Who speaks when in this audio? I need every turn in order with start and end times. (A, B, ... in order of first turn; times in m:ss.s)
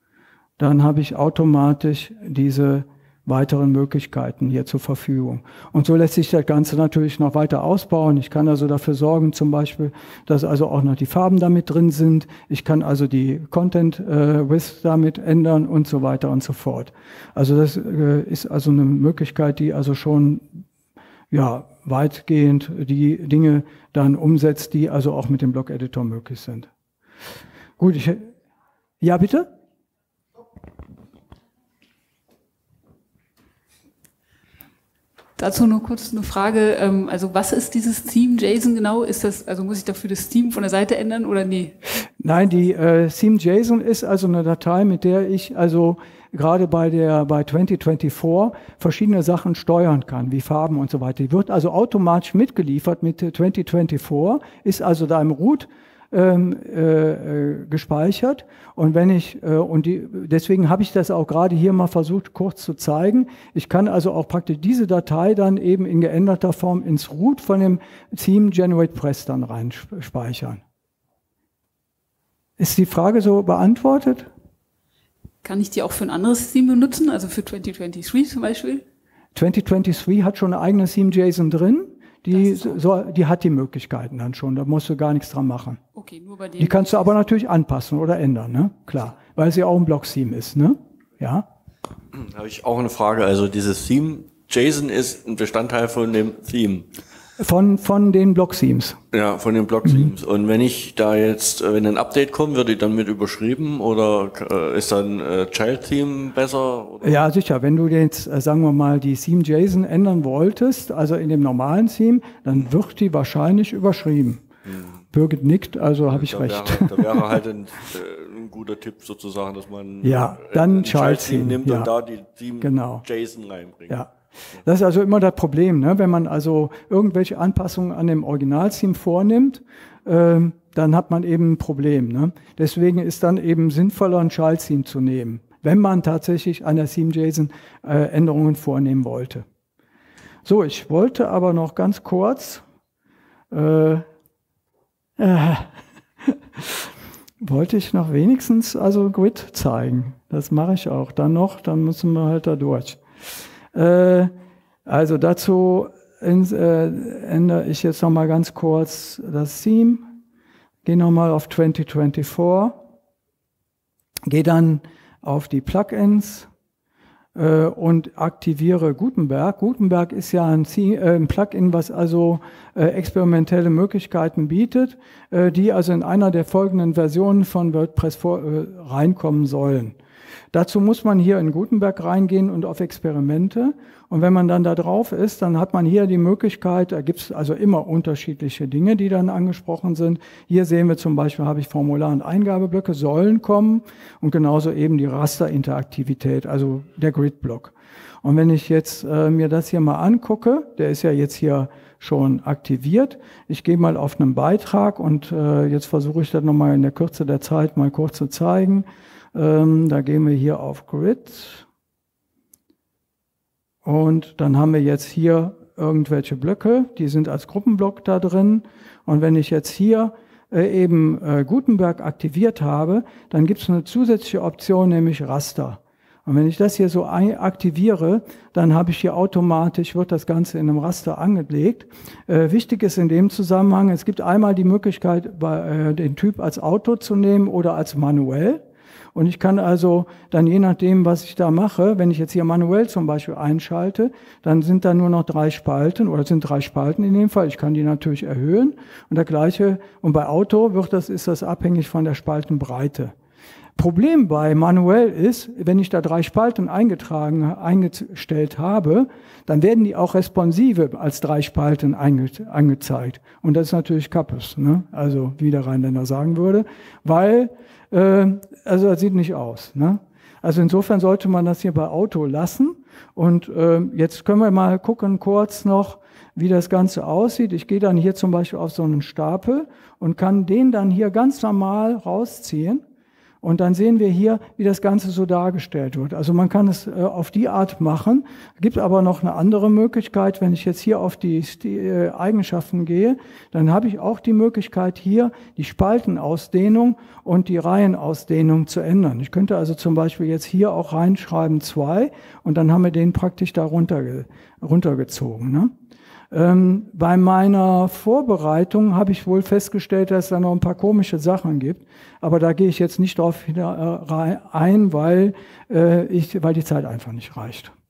0:00.6-0:20.6 A
0:21.3-0:26.7 A
0:27.8-0:28.3 A
0:29.0-0:29.5 A
0:35.4-0:41.8 B
0:42.2-1:10.6 A
1:12.6-1:14.3 A
1:15.4-1:18.8 B
1:19.3-1:25.8 A
1:22.3-1:22.8 B
1:25.9-1:27.2 B
1:26.6-1:31.5 A
1:32.1-1:36.8 C
1:37.4-1:39.0 A
1:39.1-1:47.2 C
1:39.8-1:40.1 A
1:47.0-1:54.4 A
1:55.1-1:57.4 A
1:56.1-2:04.0 C
2:00.0-2:01.9 A
2:02.6-2:03.0 A
2:04.6-2:19.4 A
2:20.4-2:22.6 A
2:23.5-2:24.0 A
2:25.2-2:26.8 A
2:27.4-2:33.0 A
2:33.7-2:34.3 A
2:34.8-2:40.1 A
2:40.8-2:42.8 A
2:44.3-2:46.5 A
2:47.3-3:00.0 A
3:00.5-3:31.6 A
3:33.8-3:58.6 A
3:59.1-4:13.1 A
4:13.8-4:42.8 A
4:43.4-5:05.7 A
5:06.3-5:17.7 A